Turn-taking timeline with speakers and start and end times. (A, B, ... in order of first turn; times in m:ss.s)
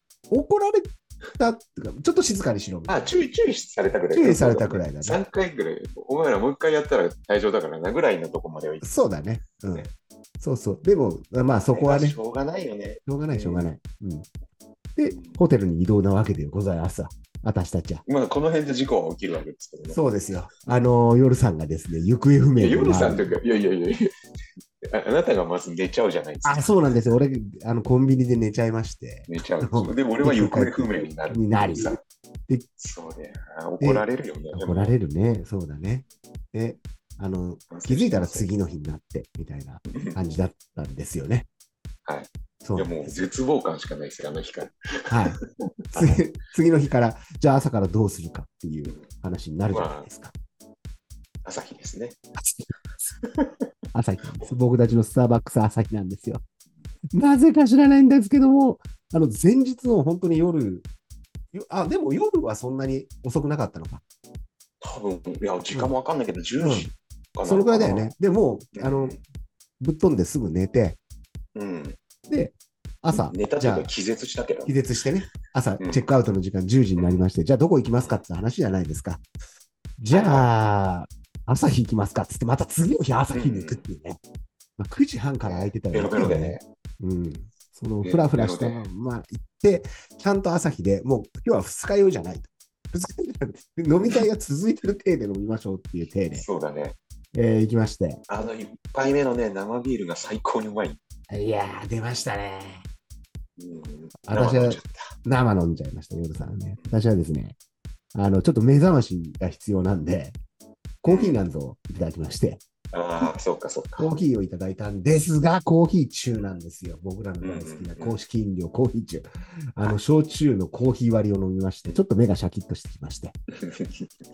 0:00.3-0:03.1 A
0:02.9-0:08.8 B
0:04.2-0:05.2 A
0:08.8-0:12.2 A
0:11.7-0:13.7 B
0:13.0-0:14.3 A
0:15.0-0:18.0 A
0:15.0-0:15.4 B
0:18.0-0:20.0 B
0:19.9-0:23.4 A
0:22.6-0:24.0 B
0:24.8-0:26.7 B
0:26.4-0:32.0 A
0:29.3-0:32.0 B
0:32.8-0:34.9 B
0:33.8-0:41.5 A
0:37.7-0:38.5 B
0:42.0-0:45.3 B
0:42.6-0:43.1 A
0:45.1-0:45.4 A
0:45.9-0:46.2 B
0:45.9-0:50.3 A
0:49.7-0:50.0 B
0:51.4-0:52.2 B
0:52.4-0:52.7 A
0:53.1-0:53.7 B
0:53.9-0:56.4 A
0:57.1-1:00.8 A
1:01.5-1:04.0 A
1:04.8-1:08.1 B
1:06.6-1:06.9 A
1:07.4-1:09.2 A
1:08.7-1:09.2 B
1:09.8-1:11.0 A
1:11.5-1:12.0 B
1:12.3-1:13.9 A
1:13.1-1:14.7 B
1:14.7-1:19.2 A
1:15.8-1:16.1 B
1:20.0-1:24.2 A
1:20.1-1:20.5 B
1:23.3-1:23.8 B
1:24.8-1:36.4 A
1:25.4-1:26.6 B
1:28.0-1:28.8 B
1:36.3-1:37.0 B
1:37.3-1:38.2 A
1:38.3-1:41.0 B
1:41.3-1:42.8 A
1:43.6-1:45.0 B
1:44.2-1:47.6 A
1:48.2-1:50.4 A
1:51.0-1:52.6 A
1:51.0-1:51.4 B
1:52.9-1:54.1 B
1:54.0-2:03.3 A
1:57.4-1:58.2 B
2:03.6-2:04.1 B